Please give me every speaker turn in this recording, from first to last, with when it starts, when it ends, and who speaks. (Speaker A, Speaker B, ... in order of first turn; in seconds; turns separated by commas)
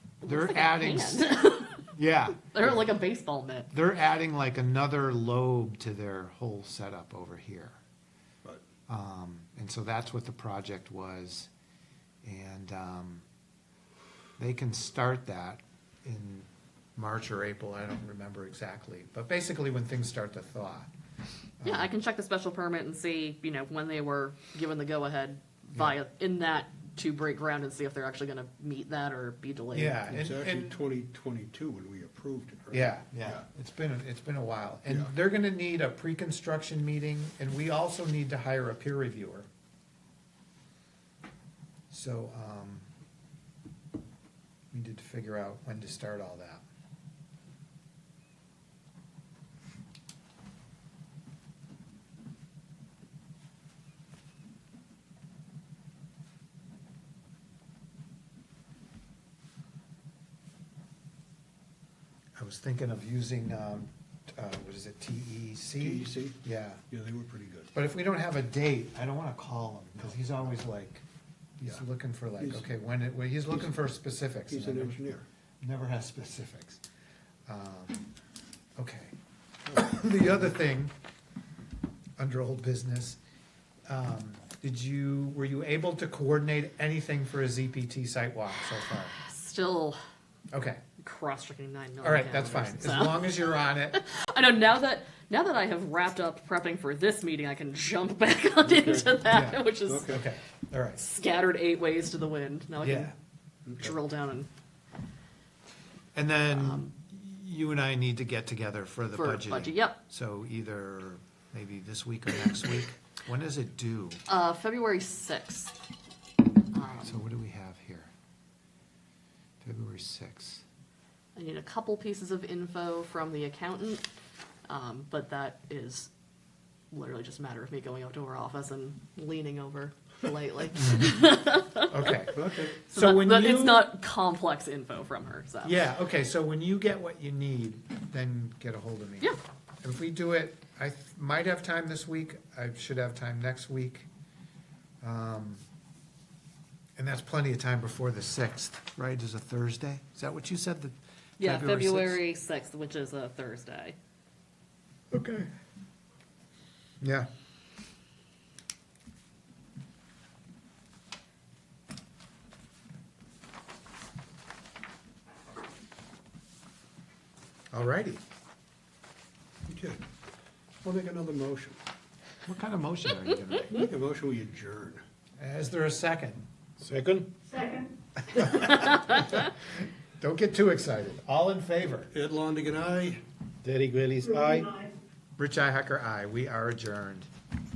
Speaker A: 0.2-1.9, Speaker B: 0.2-1.3, Speaker B: 1.9-2.4, Speaker A: 2.5-3.7, Speaker B: 3.7-7.8, Speaker B: 8.9-11.5, Speaker B: 12.2-13.2, Speaker B: 14.4-20.9, Speaker B: 21.6-21.9, Speaker A: 21.6-30.1, Speaker B: 29.7-30.8, Speaker C: 30.1-33.5, Speaker B: 32.7-39.5, Speaker B: 41.9-42.9, Speaker B: 44.7-46.6, Speaker B: 62.4-66.8, Speaker C: 65.8-67.7, Speaker B: 67.7-71.0, Speaker B: 71.6-75.0, Speaker C: 72.4-72.7, Speaker C: 74.5-75.2, Speaker B: 75.6-76.8, Speaker B: 77.5-78.0, Speaker B: 78.8-79.1, Speaker B: 79.7-80.9, Speaker B: 82.2-83.2, Speaker B: 83.9-89.2, Speaker A: 89.1-90.0, Speaker B: 90.5-90.8, Speaker A: 91.0-100.2, Speaker B: 92.0-94.0, Speaker C: 98.6-99.2, Speaker B: 99.2-101.0, Speaker C: 99.9-100.2, Speaker A: 101.0-103.1, Speaker B: 102.8-103.1, Speaker A: 103.8-104.5, Speaker B: 106.1-114.2, Speaker A: 106.5-106.9, Speaker A: 109.1-110.0, Speaker A: 114.3-115.7, Speaker A: 116.7-117.2, Speaker B: 116.8-118.1, Speaker B: 119.6-120.6, Speaker A: 121.4-124.0, Speaker A: 124.7-126.1, Speaker A: 126.9-135.8, Speaker B: 130.8-133.9, Speaker C: 132.3-132.8, Speaker B: 135.6-144.1, Speaker B: 145.0-145.6, Speaker B: 147.0-152.2, Speaker A: 151.4-154.0, Speaker B: 155.1-155.5, Speaker B: 157.0-157.3, Speaker B: 167.7-168.2, Speaker C: 169.7-170.0, Speaker C: 170.8-171.8, Speaker B: 172.5-173.9, Speaker C: 173.7-175.0, Speaker B: 175.4-177.2, Speaker B: 178.3-182.1, Speaker A: 178.4-179.0, Speaker C: 182.1-183.2, Speaker B: 183.6-184.8, Speaker B: 185.4-187.3